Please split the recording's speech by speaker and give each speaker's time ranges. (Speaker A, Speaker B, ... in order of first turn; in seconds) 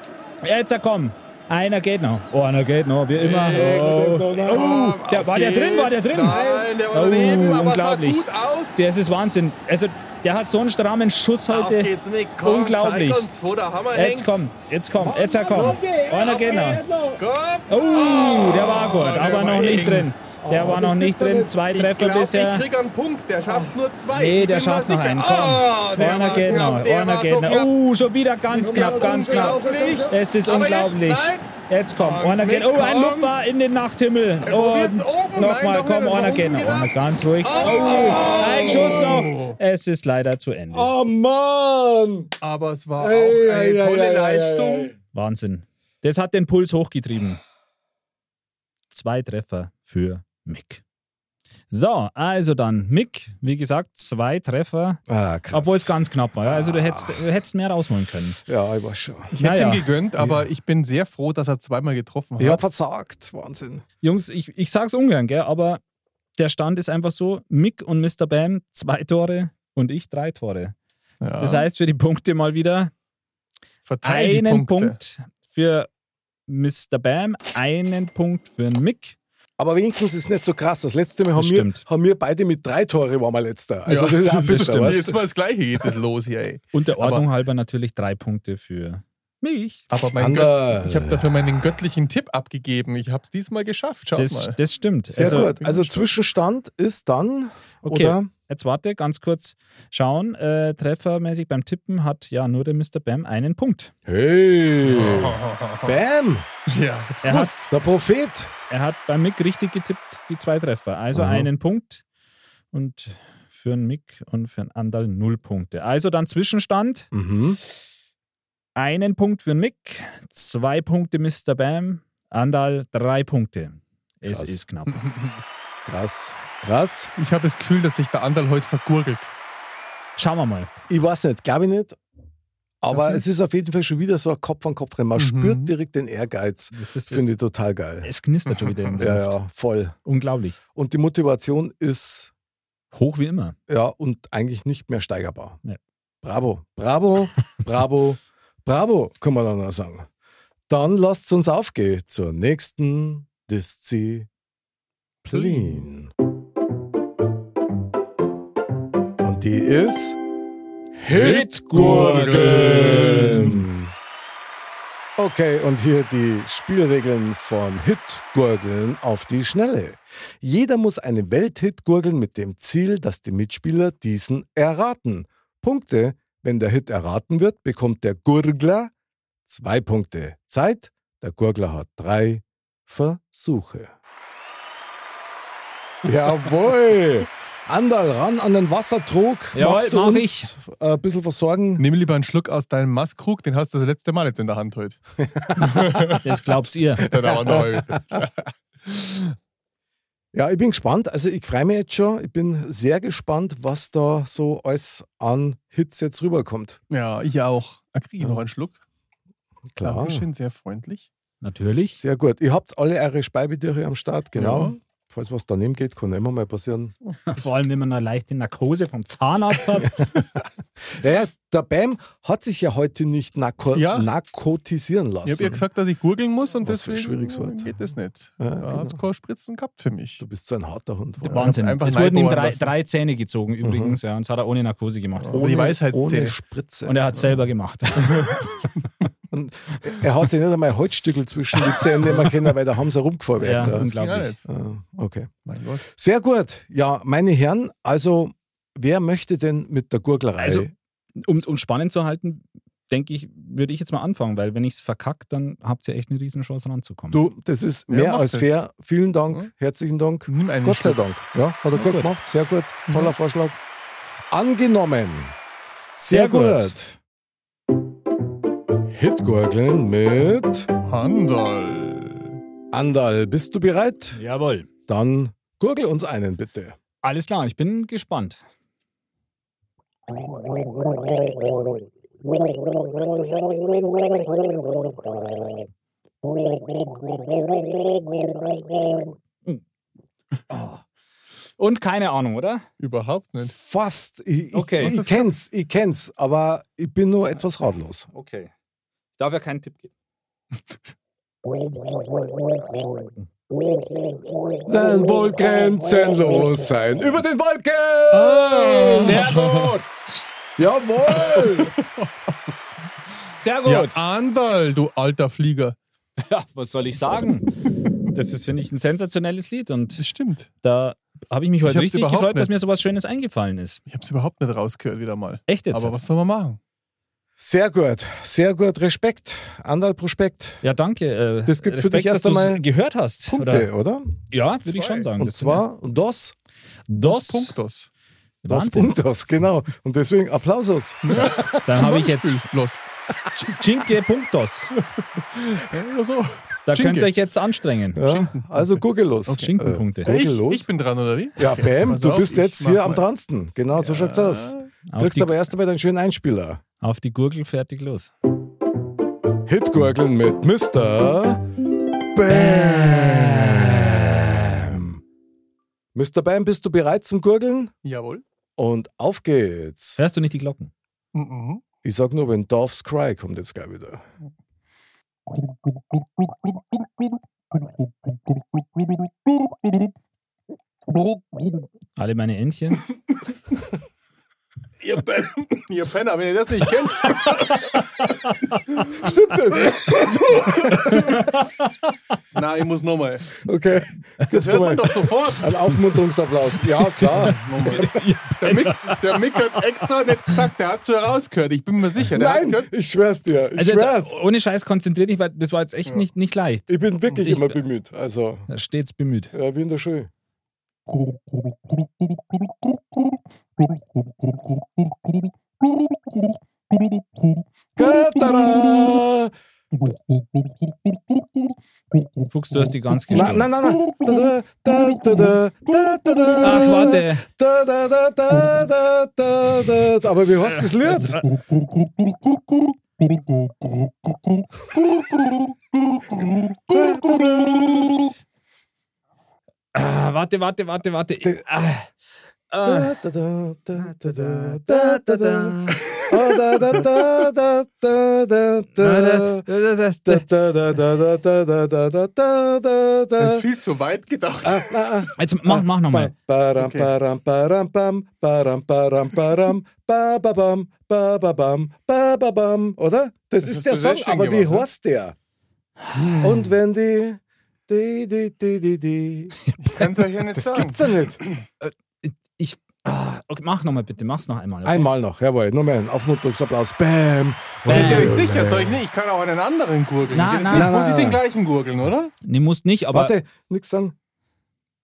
Speaker A: 0.4-8.2, 8.8-11.9, 12.4-13.3, 13.9-17.0, 17.7-22.6, 24.1-40.9, 45.1-47.4, 48.9-50.8, 51.7-55.0, 55.5-58.4, 59.4-59.9, 64.0-65.8, 66.4-70.7, 71.4-72.9, 74.0-75.9, 76.5-79.2, 81.3-81.8, 84.4-85.0, 86.7-89.8, 94.1-95.5, 97.8-103.9, 107.2-107.6, 108.7-112.0, 112.7-117.1, 118.8-125.1, 130.2-130.7, 136.7-137.3, 138.0-139.4, 140.0-140.6, 142.9-143.6, 161.2-163.5, 189.5-190.5, 196.2-197.1, 211.4-212.0, 217.3-220.0, 231.3-235.5, 236.8-238.7, 243.4-244.4, 250.4-257.2, 261.7-262.1, 266.1-266.7, 274.1-274.7, 277.0-278.4, 290.5-290.8, 291.6-292.6, 294.5-295.0, 298.1-298.5, 299.2-299.9, 308.9-309.9, 313.4-314.0, 316.2-317.5, 318.1-320.0, 320.6-323.8, 325.5-326.0, 330.6-333.7, 334.3-335.6, 336.9-337.5, 338.4-338.9, 341.6-342.5, 343.3-344.7, 346.7-348.1, 349.3-350.1, 354.9-355.4, 356.8-358.1, 362.3-364.7, 370.0-370.7, 382.0-382.9, 388.0-388.6, 390.9-391.7, 397.1-399.6, 403.6-407.6, 408.5-409.3, 422.3-423.5, 426.4-427.2, 430.4-431.2, 439.7-441.9, 442.5-442.9, 443.8-445.8, 448.8-450.3, 455.2-456.1, 471.6-474.9, 477.7-478.1, 480.1-480.7, 482.2-483.1
Speaker B: 3.2-8.8, 11.5-14.4, 15.5-20.1, 21.7-27.7, 28.5-33.3, 34.4-39.5, 42.4-44.9, 59.3-62.6, 71.2-71.7, 73.8-75.0, 83.8-87.2, 89.9-94.6, 95.1-96.1, 104.8-106.0, 106.7-107.7, 124.9-125.3, 127.2-129.3, 135.2-135.7, 138.6-138.9, 161.1-163.6, 191.8-195.0, 195.6-196.2, 197.0-199.3, 206.9-208.8, 209.8-211.1, 214.3-214.8, 223.7-224.1, 225.2-230.2, 231.2-232.7, 235.2-236.4, 243.6-244.4, 245.4-245.8, 257.9-258.6, 260.3-261.0, 262.9-263.1, 270.8-272.4, 292.8-293.6, 294.8-295.3, 308.1-309.7, 311.1-312.1, 313.6-315.8, 319.9-320.5, 321.6-322.5, 323.9-326.6, 334.6-335.1, 337.0-337.9, 341.0-342.8, 345.2-346.4, 348.1-349.5, 350.0-353.0, 353.8-354.7, 367.8-368.2, 371.1-371.6, 376.2-377.8, 378.8-379.9, 380.9-381.6, 384.8-387.8, 390.6-391.2, 392.3-393.4, 394.3-395.7, 397.1-402.7, 410.9-417.4, 418.2-418.9, 419.7-421.0, 423.1-424.2, 424.8-425.3, 453.2-454.8, 456.6-456.9, 463.4-464.7, 465.9-466.5, 469.6-471.2, 477.6-482.1
Speaker C: 3.5-4.7, 6.3-6.7, 15.0-17.2, 19.3-21.5, 23.4-23.7, 26.0-26.7, 28.6-30.2, 37.6-39.3, 40.7-42.3, 43.0-44.9, 55.1-57.2, 58.5-59.3, 62.4-63.8, 79.6-85.2, 90.2-91.4, 95.1-98.3, 104.0-106.5, 107.7-108.5, 111.1-111.5, 117.1-117.6, 124.3-124.6, 125.8-127.1, 130.9-132.0, 132.8-138.1, 139.0-139.9, 140.7-142.3, 143.7-145.6, 146.2-150.1, 150.7-154.3, 155.2-156.1, 159.2-160.2, 160.9-163.9, 165.2-178.9, 179.5-183.9, 186.0-191.8, 195.2-196.2, 197.2-198.2, 200.3-206.8, 209.7-210.2, 211.9-216.9, 220.8-225.6, 226.6-227.7, 228.4-229.0, 230.2-231.6, 233.6-234.0, 235.3-237.3, 239.3-243.9, 244.4-245.3, 245.9-250.7, 257.1-263.6, 264.3-265.4, 266.0-267.0, 268.9-270.7, 272.7-274.2, 274.9-276.8, 293.4-298.1, 304.6-309.4, 310.6-311.7, 327.4-330.6, 331.4-332.6, 333.3-334.2, 335.2-336.3, 338.5-341.6, 346.7-347.1, 347.9-350.7, 351.4-356.6, 359.4-361.4, 362.1-365.0, 365.9-367.7, 368.6-370.0, 371.8-374.0, 388.9-391.2, 393.4-398.0, 402.1-404.1, 406.7-408.5, 409.3-410.1, 417.8-419.3, 423.1-431.2, 434.8-435.1, 436.7-438.1, 442.6-449.5, 450.0-453.4, 454.4-465.1, 466.2-469.3, 470.3-471.2, 474.6-478.8, 480.5-481.2, 482.9-483.9